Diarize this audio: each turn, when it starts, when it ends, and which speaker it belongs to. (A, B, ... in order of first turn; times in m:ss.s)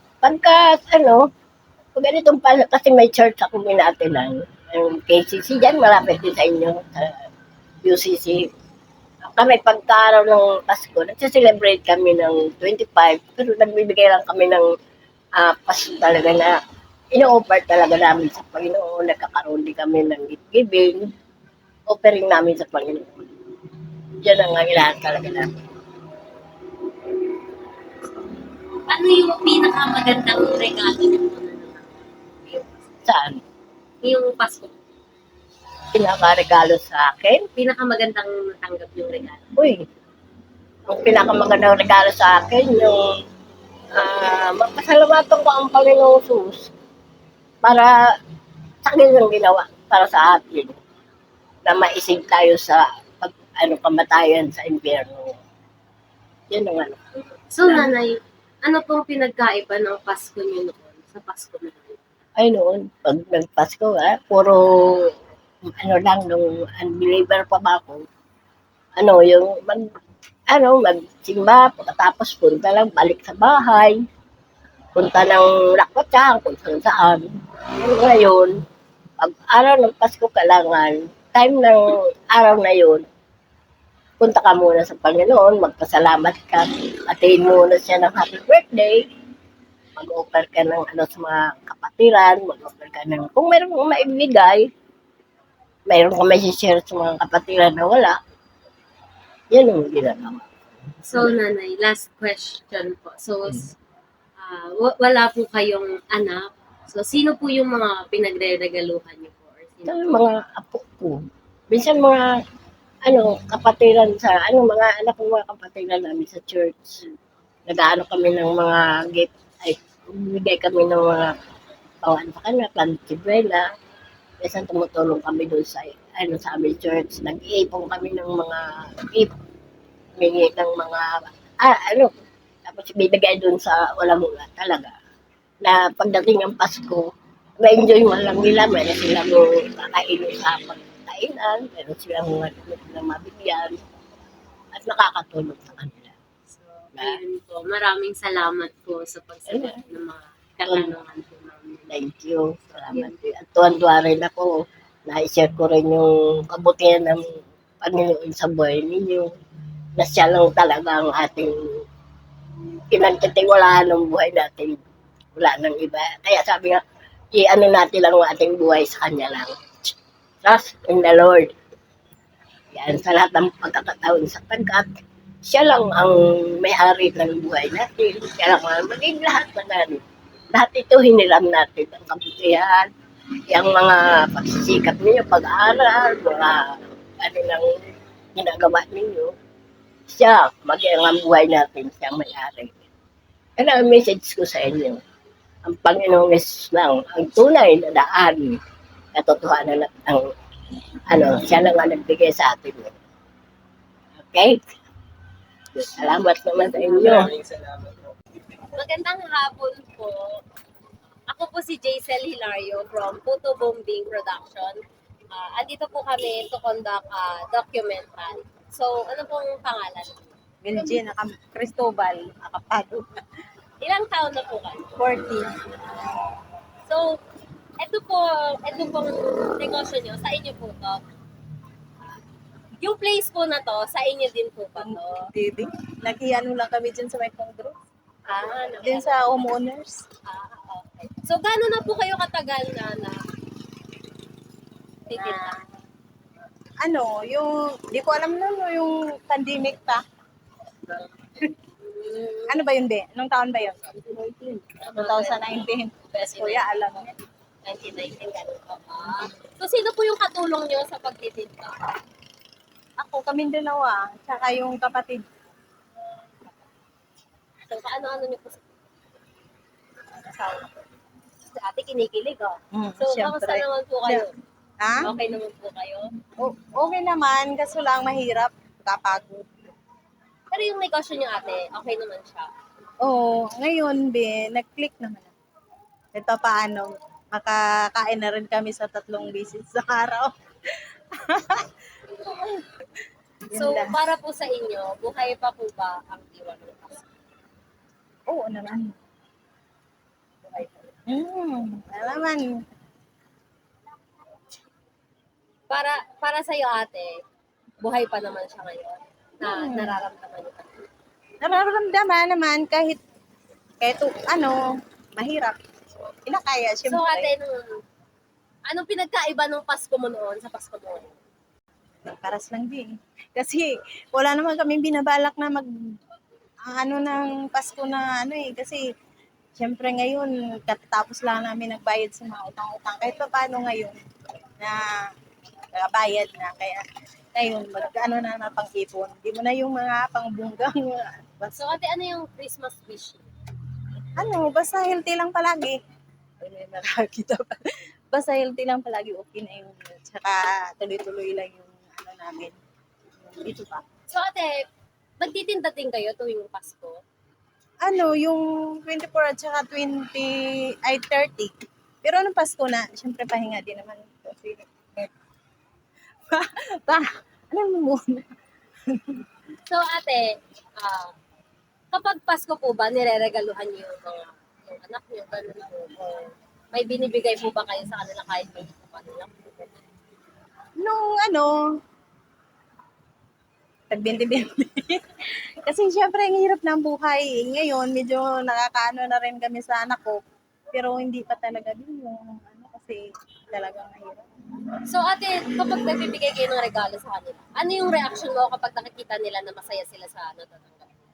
0:00.2-0:01.3 A
0:02.0-0:07.2 A
0:07.8-0:08.5 A
0:09.3-0:14.7 A
0:15.4-0:16.6 A
0:17.1-0:21.1 A
0:21.9-0:23.3 A
0:24.2-0:25.5 A
0:28.9-0:32.8 B
0:33.1-0:33.4 A
0:34.0-0:34.8 B
0:35.9-0:37.4 A
0:37.6-0:39.5 B
0:39.6-0:39.8 A
0:40.9-0:43.0 A
0:44.0-0:46.7 A
0:47.6-0:47.9 A
0:48.8-0:50.8 A
0:51.7-0:55.4 A
0:56.5-0:57.0 A
0:57.5-1:02.0 B
0:57.7-0:57.9 A
1:02.4-1:05.1 A
1:05.7-1:08.0 A
1:09.0-1:09.9 A
1:10.5-1:14.0 A
1:15.0-1:17.3 A
1:17.8-1:18.6 A
1:19.2-1:23.1 A
1:24.2-1:29.0 A
1:30.0-1:34.7 A
1:35.9-1:38.2 A
1:39.5-1:40.4 A
1:41.1-1:43.7 B
1:44.4-1:50.1 B
1:49.9-1:51.2 A
1:51.7-1:52.2 A
1:53.0-1:57.0 A
1:57.7-2:01.4 A
2:02.0-2:03.7 A
2:04.4-2:09.3 A
2:10.2-2:12.1 A
2:12.7-2:14.9 A
2:15.6-2:23.8 A
2:24.7-2:26.1 A
2:26.8-2:31.9 B
2:31.9-2:39.3 A
2:32.7-2:33.2 B
2:40.0-2:41.8 A
2:42.9-2:44.8 A
2:45.4-2:46.8 A
2:47.3-2:49.9 A
2:50.4-2:51.5 A
2:52.7-2:54.9 A
2:55.5-3:00.0 A
3:00.5-3:02.9 A
3:03.5-3:07.8 A
3:08.4-3:09.3 A
3:10.1-3:12.8 A
3:13.6-3:15.0 A
3:15.6-3:18.6 A
3:19.2-3:20.3 A
3:21.1-3:23.0 A
3:24.2-3:24.6 A
3:25.8-3:27.3 A
3:28.8-3:30.4 B
3:31.3-3:40.3 B
3:40.6-3:43.2 C
3:43.8-3:44.9 B
3:45.0-3:45.6 C
3:46.9-3:47.2 B
3:47.8-3:51.0 B
3:52.8-3:55.3 B
3:54.8-3:57.8 C
3:58.3-3:59.3 B
3:58.8-4:00.0 C
4:00.2-4:03.2 B
4:05.1-4:05.6 B
4:06.8-4:10.0 C
4:12.0-4:12.4 B
4:12.5-4:17.1 C
4:14.8-4:15.5 B
4:16.1-4:17.0 B
4:17.6-4:21.8 B
4:23.0-4:25.2 C
4:27.7-4:28.6 B
4:30.3-4:30.6 C
4:31.5-4:34.3 B
4:32.7-4:34.2 C
4:34.8-4:35.1 C
4:35.0-4:36.1 B
4:36.4-4:39.5 C
4:40.5-4:42.5 B
4:43.0-4:45.3 C
4:46.2-4:50.3 C
4:51.2-4:51.7 C
4:53.5-4:54.0 C
4:53.6-4:57.0 B
4:58.3-4:58.9 C
5:01.1-5:02.5 C
5:05.7-5:07.2 B
5:07.8-5:10.8 B
5:09.4-5:10.0 C
5:11.4-5:13.0 C
5:13.8-5:14.6 C
5:15.2-5:15.6 C
5:16.3-5:17.3 C
5:16.9-5:17.8 B
5:18.7-5:21.1 B
5:22.1-5:25.7 C
5:26.7-5:28.8 C
5:29.6-5:34.0 C
5:34.6-5:34.9 C
5:35.7-5:36.8 C
5:37.4-5:41.6 C
5:41.6-5:43.3 B
5:44.2-5:45.8 C
5:46.4-5:52.5 C
5:53.3-5:53.8 C
5:54.1-5:54.7 B
5:55.2-5:57.0 B
5:57.8-6:00.3 C
6:00.8-6:05.1 C
6:06.3-6:08.2 C
6:08.9-6:09.2 C
6:09.7-6:11.1 B
6:11.9-6:19.8 B
6:20.8-6:21.6 C
6:23.9-6:25.1 C
6:25.6-6:30.2 C
6:30.7-6:34.3 C
6:34.9-6:40.9 B